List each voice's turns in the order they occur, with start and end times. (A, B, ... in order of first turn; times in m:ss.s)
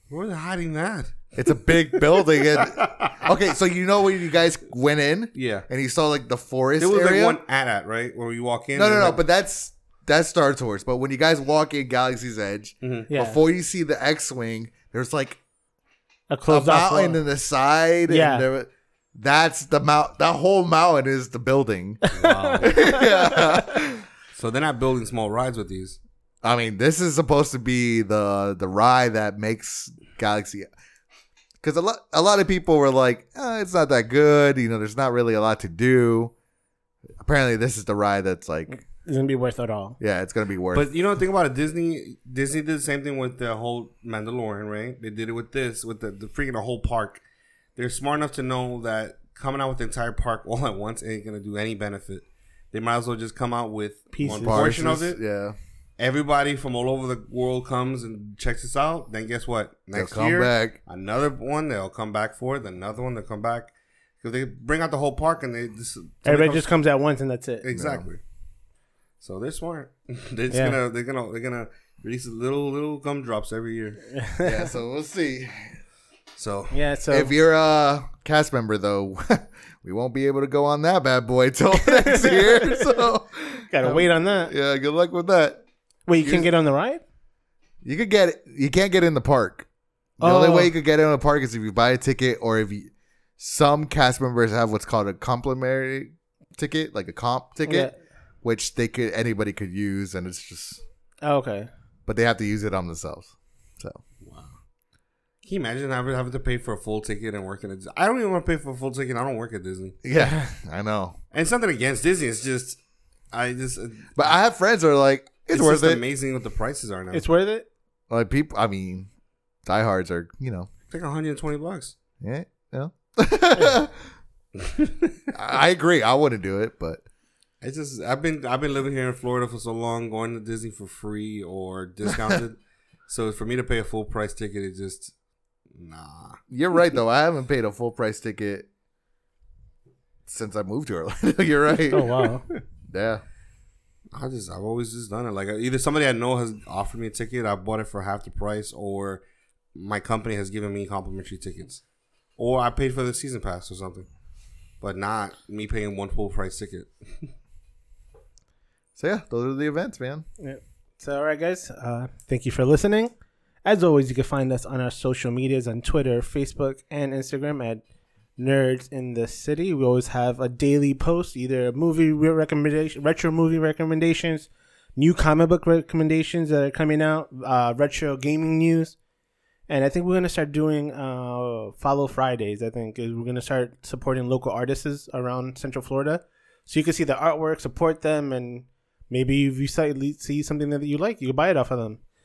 0:00.1-0:03.2 A
0:01.4-0:07.4 B
0:05.3-0:05.6 A
0:06.8-0:09.2 A
0:08.7-0:15.4 B
0:12.8-0:13.1 A
0:13.1-0:13.4 C
0:16.3-0:17.2 C
0:16.5-0:22.0 B
0:18.1-0:18.5 C
0:22.0-0:23.7 C
0:22.1-0:22.8 A
0:22.6-0:24.0 B
0:24.3-0:26.0 A
0:26.4-0:30.7 B
0:31.6-0:36.3 B
0:37.2-0:38.8 B
0:38.7-0:40.0 C
0:40.0-0:40.9 B
0:40.7-0:47.2 A
0:47.8-0:55.2 A
0:54.1-0:54.6 C
0:54.2-0:55.6 B
0:56.0-1:03.7 A
0:59.9-1:00.8 B
1:04.2-1:06.7 A
1:06.2-1:07.6 C
1:07.6-1:08.2 A
1:07.7-1:08.1 B
1:09.2-1:14.0 A
1:10.5-1:10.8 C
1:14.1-1:14.7 C
1:14.4-1:15.8 B
1:16.4-1:16.7 A
1:16.7-1:17.3 C
1:17.1-1:25.6 B
1:21.7-1:22.9 C
1:23.7-1:24.5 C
1:26.1-1:27.0 C
1:26.2-1:26.5 B
1:27.8-1:29.7 B
1:30.2-1:37.9 B
1:30.2-1:30.7 C
1:37.7-1:37.9 C
1:38.4-1:40.8 B
1:41.2-1:41.7 C
1:42.1-1:44.0 B
1:44.2-1:44.6 A
1:45.4-1:50.0 A
1:50.0-1:51.2 B
1:50.2-1:50.5 C
1:51.3-1:52.8 A
1:53.3-1:54.3 A
1:54.1-1:56.0 B
1:55.5-1:57.2 A
1:57.1-1:57.6 C
1:58.1-1:59.1 B
1:59.6-2:00.7 B
2:00.9-2:02.0 A
2:02.2-2:04.0 B
2:04.6-2:05.1 A
2:05.3-2:07.0 B
2:07.6-2:15.1 A
2:12.1-2:12.4 B
2:15.7-2:16.4 A
2:16.5-2:18.7 B
2:20.3-2:22.3 B
2:21.9-2:22.4 C
2:22.9-2:23.2 B
2:24.1-2:29.2 A
2:29.7-2:31.8 A
2:32.4-2:34.1 A
2:34.8-2:37.3 A
2:39.0-2:40.2 B
2:40.4-2:43.1 C
2:43.6-2:47.8 C
2:48.4-2:59.0 C
2:59.7-3:12.0 C